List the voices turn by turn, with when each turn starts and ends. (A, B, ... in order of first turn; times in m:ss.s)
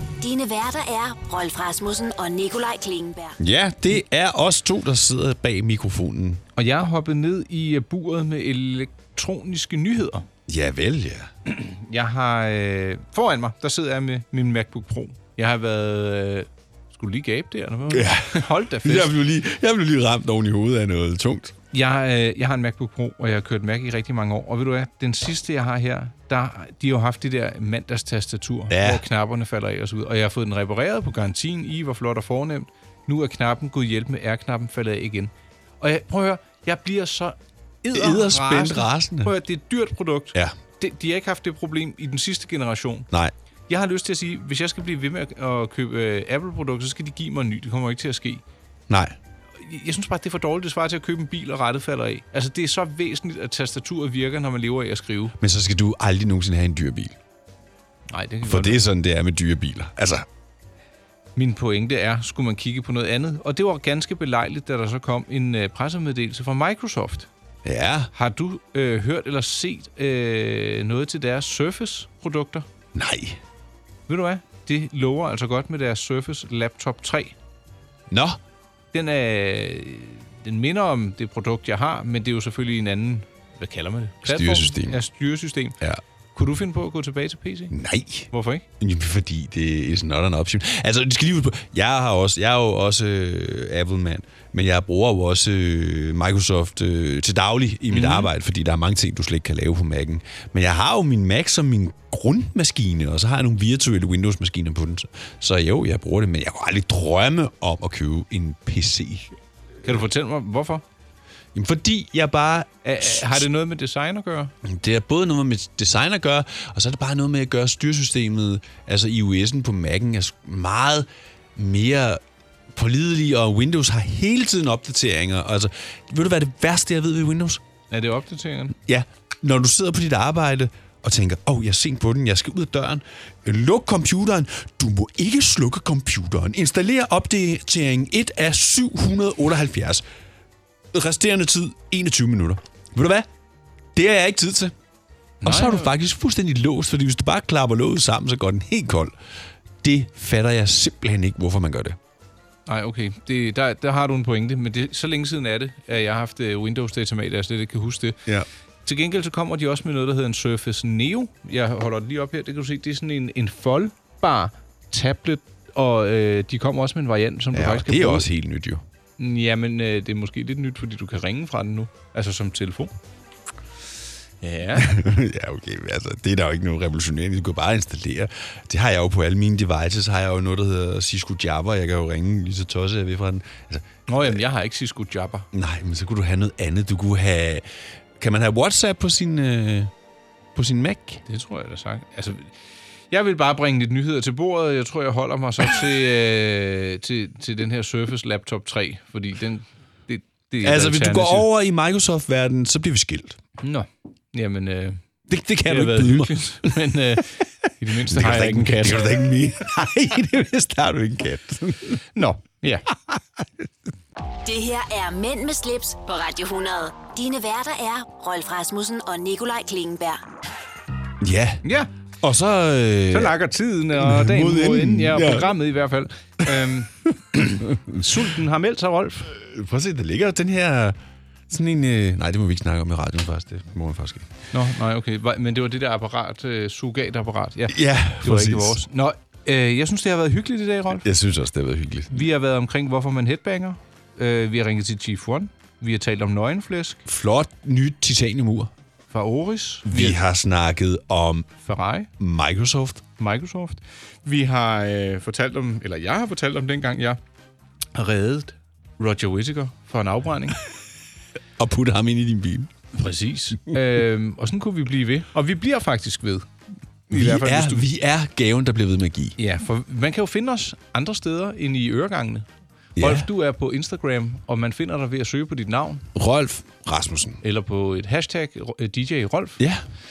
0:00.2-0:03.4 A
0:03.4-0:06.4 B
0:06.6-0:10.3 C
0:10.5-0:11.3 B
0:11.4-0:19.1 C
0:17.9-0:21.5 B
0:21.7-0:43.1 C
0:28.7-0:29.0 B
0:37.9-0:39.3 B
0:43.7-0:48.4 C
0:48.9-0:49.2 B
0:49.6-0:55.3 C
0:55.4-0:57.2 B
0:58.1-0:58.8 C
0:58.4-1:00.3 B
1:01.4-1:07.3 C
1:07.6-1:08.1 B
1:08.1-1:12.6 C
1:12.9-1:13.4 B
1:14.1-1:17.4 C
1:18.1-1:18.4 B
1:18.9-1:25.8 C
1:24.2-1:25.0 B
1:26.3-1:27.7 C
1:27.7-1:50.0 B
1:28.3-1:28.6 C
1:37.9-1:38.3 C
1:49.8-1:50.8 C
1:51.5-1:53.4 B
1:52.8-1:54.5 C
1:54.6-2:02.2 B
2:02.7-2:07.6 B
2:07.9-2:08.8 C
2:08.8-2:20.0 B
2:20.9-2:23.3 B
2:23.9-2:24.7 B
2:25.4-2:29.2 B
2:25.4-2:25.9 C
2:29.8-2:32.0 B
2:32.7-2:38.2 C
2:38.8-2:48.2 C
2:47.5-2:48.8 B
2:49.2-2:52.9 C
2:54.4-2:54.9 C
2:54.8-3:04.4 B
3:04.1-3:05.5 C
3:05.5-3:07.7 B
3:08.2-3:09.9 B
3:10.5-3:11.2 B
3:11.3-3:12.6 C
3:13.1-3:21.5 C
3:20.6-3:23.4 B
3:23.6-3:25.0 C
3:25.3-3:27.4 B
3:25.6-3:29.2 C
3:28.1-3:32.0 B
3:32.1-3:32.8 C
3:33.1-3:33.6 B
3:34.4-3:40.2 A
3:41.2-3:41.6 B
3:41.6-3:41.9 C
3:42.2-3:43.4 B
3:43.1-3:49.3 C
3:43.9-3:45.5 B
3:47.1-3:48.1 B
3:49.3-3:51.0 B
3:51.5-3:54.3 B
3:54.5-4:01.0 C
3:57.7-3:58.8 B
4:01.0-4:02.2 B
4:02.1-4:07.0 C
4:07.0-4:08.7 B
4:09.1-4:10.2 C
4:09.8-4:11.5 B
4:11.6-4:12.1 C
4:12.2-4:13.0 B
4:13.2-4:17.2 C
4:17.9-4:20.6 C
4:21.6-4:22.7 B
4:22.9-4:26.5 C
4:27.1-4:27.8 C
4:27.1-4:29.4 B
4:29.4-4:32.5 C
4:33.0-4:33.3 B
4:33.0-4:36.0 C
4:36.1-4:37.4 B
4:37.4-4:39.6 C
4:39.6-4:39.8 B